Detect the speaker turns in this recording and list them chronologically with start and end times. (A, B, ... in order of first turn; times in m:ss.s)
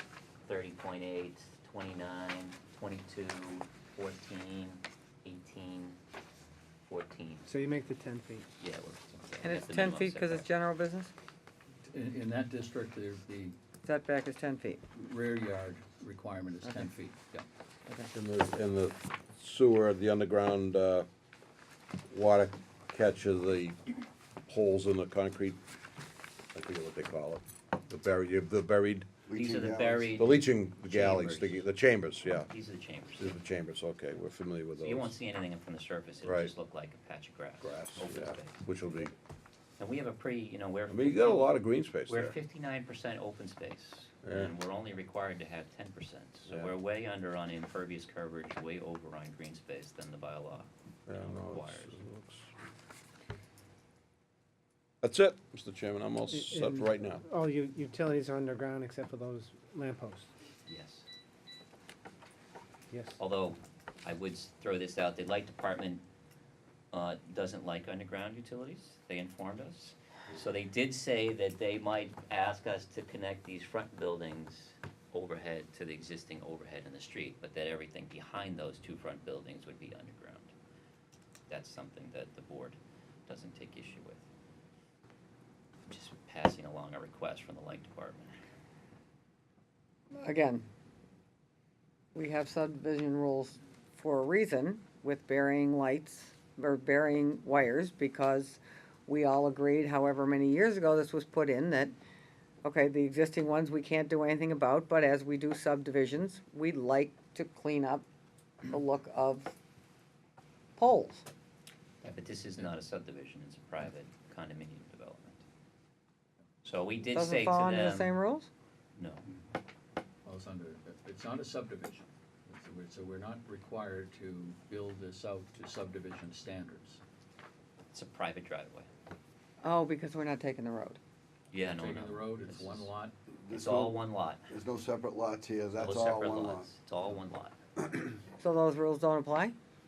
0:00.4-0:06.0 A
0:06.9-0:07.5 A
0:07.4-0:08.5 B
0:08.6-0:10.5 A
0:09.4-0:11.1 C
0:11.9-0:13.6 D
0:13.8-0:14.8 C
0:15.0-0:17.5 D
0:18.1-0:21.1 E
0:22.1-0:23.8 E
0:24.5-0:25.6 E
0:26.6-0:29.3 E
0:29.3-0:30.0 F
0:29.3-0:31.6 A
0:30.1-0:32.5 E
0:32.5-0:33.4 A
0:33.2-0:35.1 E
0:34.8-0:38.6 A
0:36.2-0:36.5 E
0:37.6-0:39.1 E
0:39.8-0:52.0 A
0:40.9-0:42.4 E
0:44.2-0:44.5 E
0:51.1-0:52.5 E
0:55.0-0:57.2 E
0:56.3-1:00.3 B
1:00.7-1:01.1 A
1:02.9-1:03.2 B
1:03.2-1:06.0 A
1:06.9-1:20.5 A
1:21.5-1:24.2 A
1:25.9-1:28.3 A
1:30.2-1:30.6 C
1:32.2-1:41.9 C
1:42.6-1:48.0 C
1:48.6-1:49.5 C
1:50.8-1:51.2 C
1:52.0-1:55.4 A
1:56.6-1:58.1 A
1:57.1-1:58.5 C
1:59.0-1:59.3 A
2:00.2-2:07.0 D
2:07.9-2:08.9 A
2:09.6-2:11.0 C
2:11.5-2:12.9 A
2:11.6-2:13.2 D
2:13.4-2:14.0 F
2:13.5-2:14.5 A
2:14.5-2:16.6 F
2:15.8-2:17.6 A
2:18.4-2:19.6 C